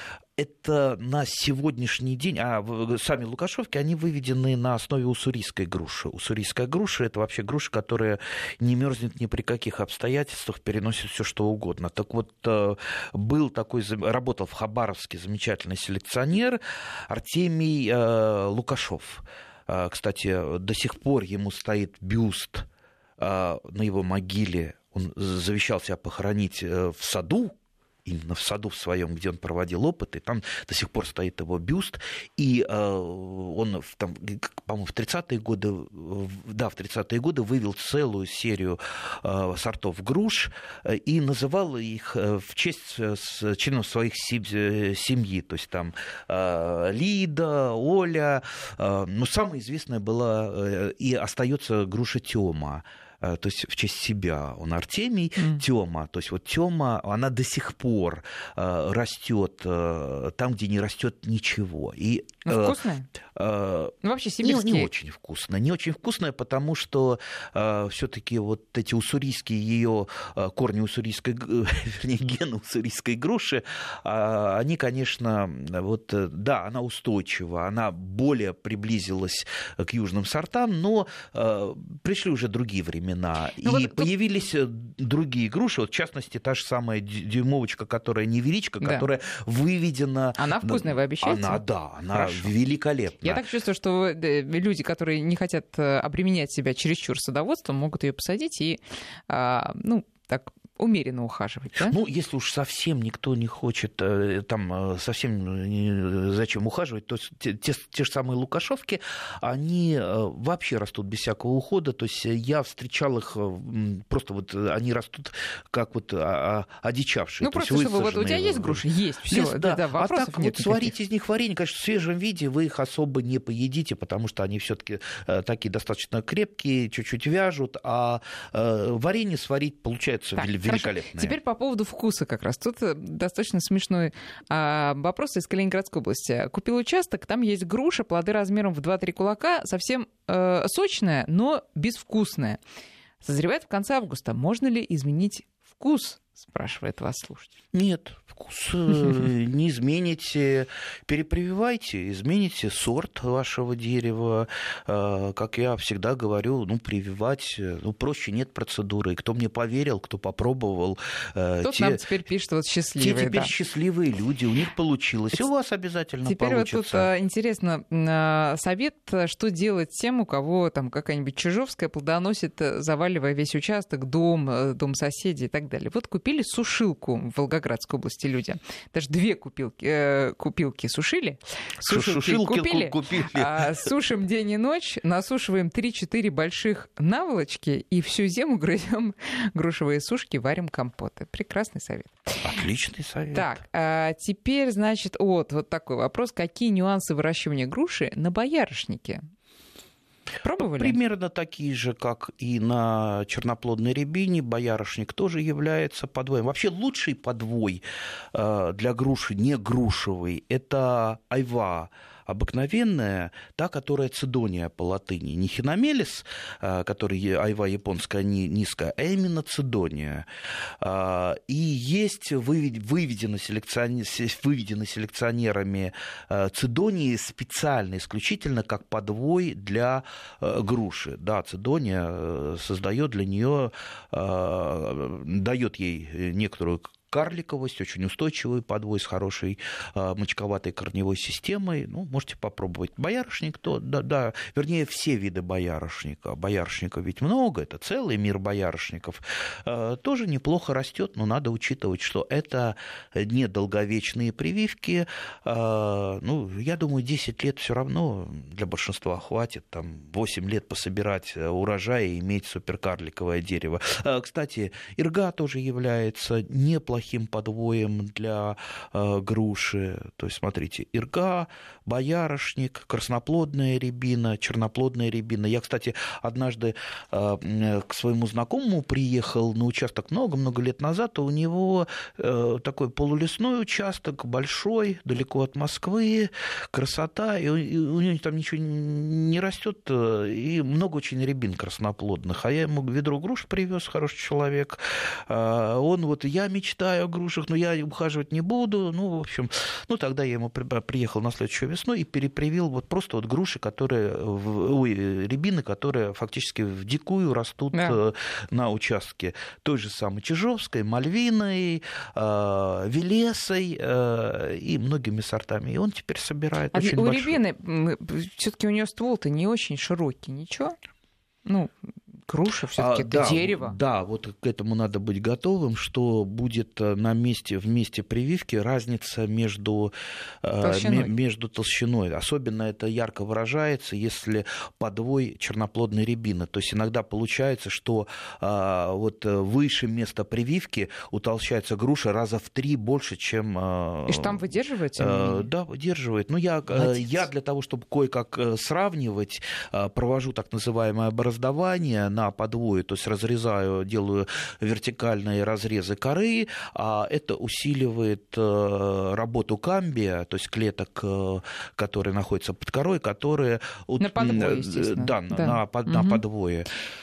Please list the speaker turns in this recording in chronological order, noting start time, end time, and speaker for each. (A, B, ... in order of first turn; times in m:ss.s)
0:00.4-0:22.7 A
0:23.2-1:02.8 A
1:02.5-1:03.1 B
1:03.3-1:33.4 A
1:04.0-1:04.9 B
1:23.6-1:24.1 B
1:30.4-1:32.5 B
1:33.2-1:42.0 B
1:41.8-2:11.4 A
1:57.4-2:00.9 B
2:10.4-2:22.6 B
2:23.2-2:27.5 B
2:27.7-2:42.0 A
2:41.6-2:43.5 B
2:43.0-2:47.1 A
2:46.2-3:12.4 B
3:01.8-3:03.9 A
3:12.4-3:13.6 A
3:13.3-3:19.2 B
3:20.4-3:21.0 B
3:20.6-3:40.3 A
3:40.8-5:17.4 A
5:07.7-5:08.0 B
5:16.7-5:20.8 B
5:21.5-5:21.7 B
5:22.3-5:23.8 B
5:22.8-6:06.7 A
5:30.6-5:31.1 B
5:44.1-5:45.5 B
5:46.7-5:47.2 B
6:04.0-6:06.2 B